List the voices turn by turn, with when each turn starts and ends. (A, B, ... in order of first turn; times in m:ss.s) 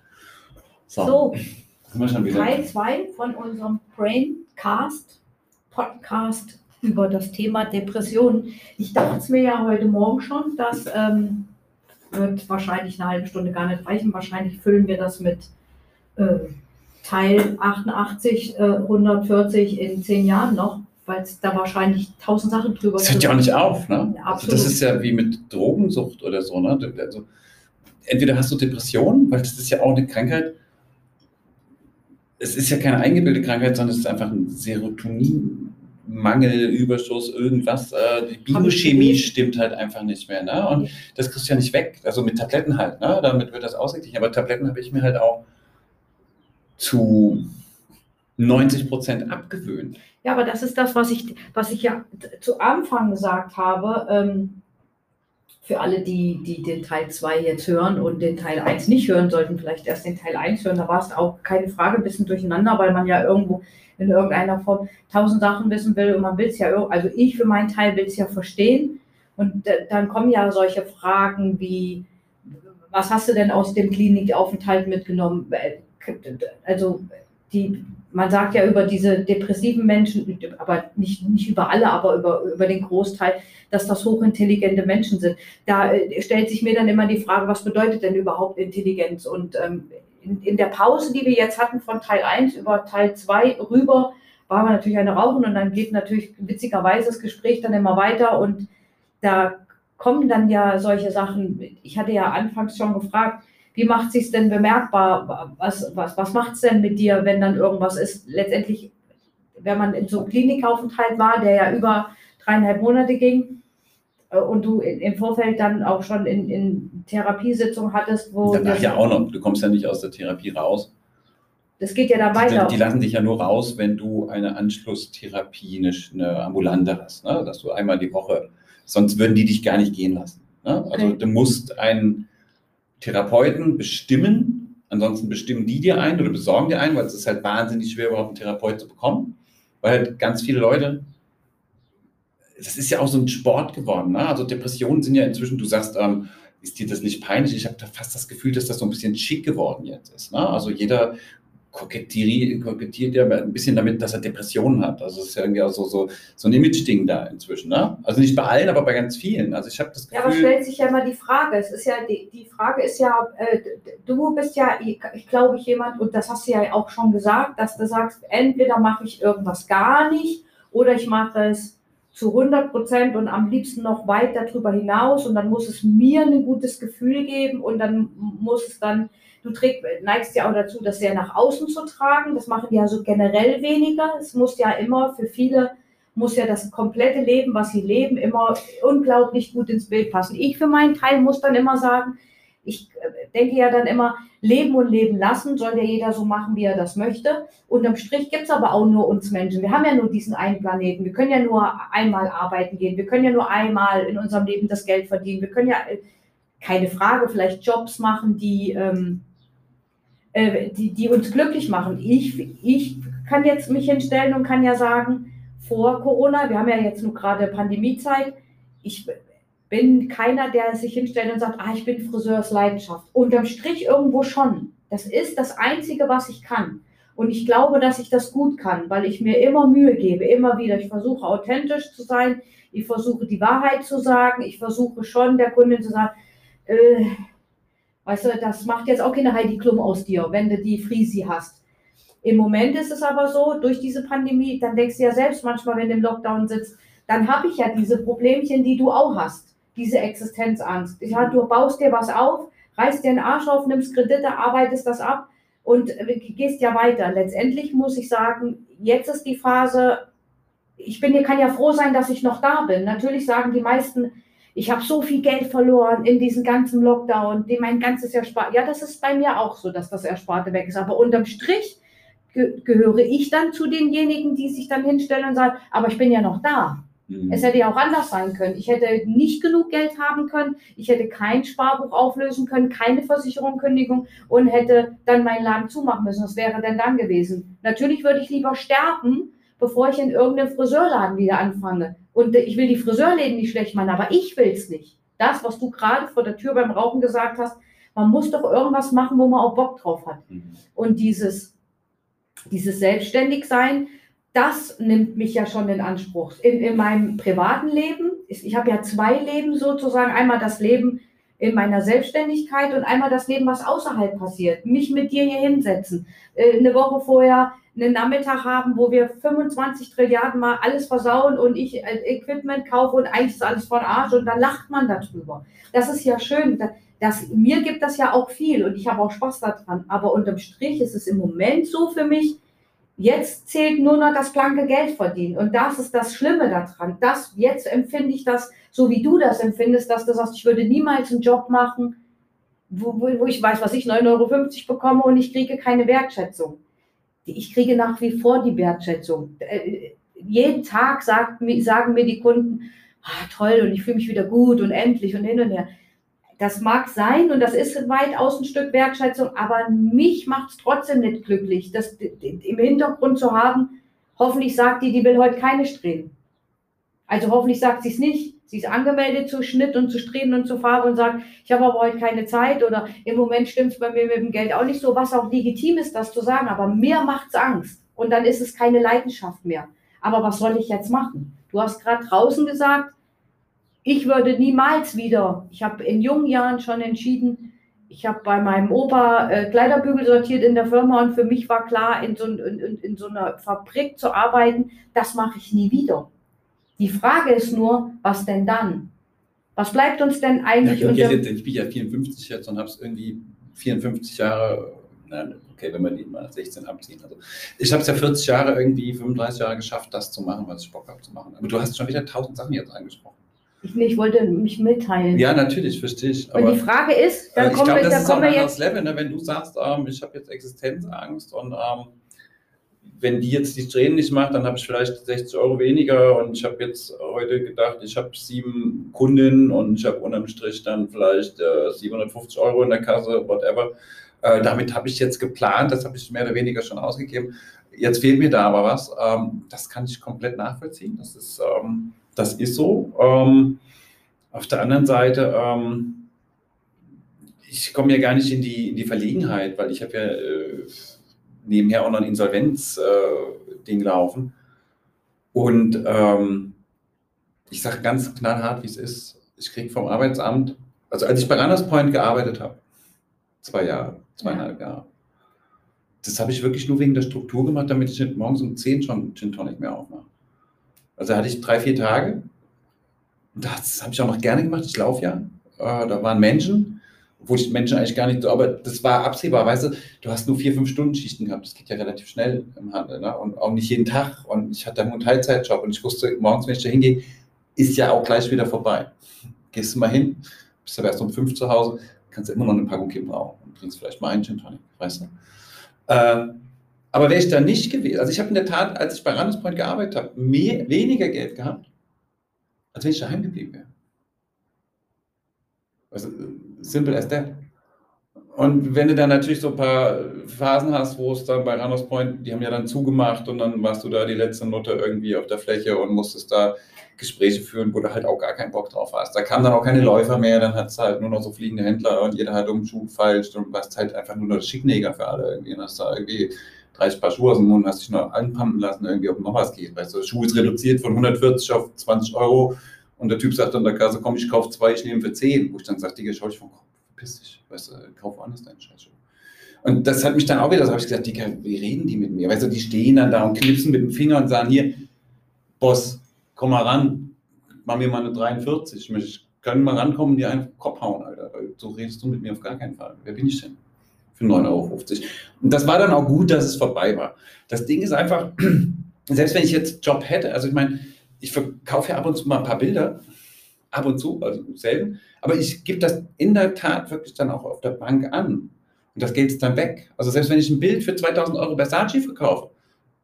0:00.9-0:01.3 A
0:01.0-0:01.4 B
0:01.9-0:02.7 A
0:02.3-0:05.2 B
0:05.7-0:11.5 B
0:12.1-0:15.5 B
0:16.2-0:23.5 B
0:23.0-0:27.2 A
0:24.1-0:24.8 B
0:28.0-0:30.5 A
0:32.4-0:45.4 A
0:38.5-0:39.3 B
0:46.8-0:47.4 A
0:48.4-0:50.0 A
0:50.2-0:54.6 B
0:55.6-1:12.0 B
1:12.9-1:38.7 B
1:39.2-1:48.9 B
1:49.6-1:53.6 B
1:54.3-1:58.9 B
1:58.4-2:00.9 A
2:01.8-2:02.8 B
2:02.3-2:12.3 A
2:10.9-2:11.2 B
2:13.0-2:21.0 A
2:22.6-2:31.1 A
2:31.7-2:40.5 A
2:40.1-3:26.0 B
3:26.6-3:29.2 B
3:30.3-3:39.1 B
3:39.7-3:56.1 B
3:56.6-3:57.2 B
3:58.0-4:01.6 B
4:02.2-4:20.0 B
4:20.8-4:31.8 B
4:32.3-5:01.5 B
4:37.1-4:37.4 A
5:00.3-5:00.6 A
5:02.5-5:32.4 B
5:33.0-5:41.9 B
5:42.7-5:46.6 B
5:47.2-5:55.7 B
5:56.4-6:06.1 B
6:07.1-6:22.9 B
6:23.8-6:36.1 B
6:36.8-6:38.9 B
6:39.6-6:41.2 B
6:40.6-6:53.2 A
6:53.6-6:55.2 B
6:55.1-6:56.6 A
6:56.3-6:58.5 B
6:57.3-7:01.9 A
7:02.9-7:13.7 A
7:14.2-7:23.6 A
7:24.3-7:26.0 A
7:27.4-7:34.3 A
7:35.3-7:36.6 A
7:37.5-7:42.6 A
7:43.4-7:44.8 A
7:46.0-7:50.1 A
7:51.0-7:52.3 A
7:53.4-8:07.0 A
8:07.6-8:08.9 A
8:09.5-8:15.1 A
8:15.9-8:21.6 A
8:22.7-8:23.7 A
8:25.9-8:27.4 A
8:28.3-8:58.9 A
8:59.6-9:04.8 A
9:05.6-9:13.6 A
9:14.2-9:23.0 A
9:23.7-9:32.5 A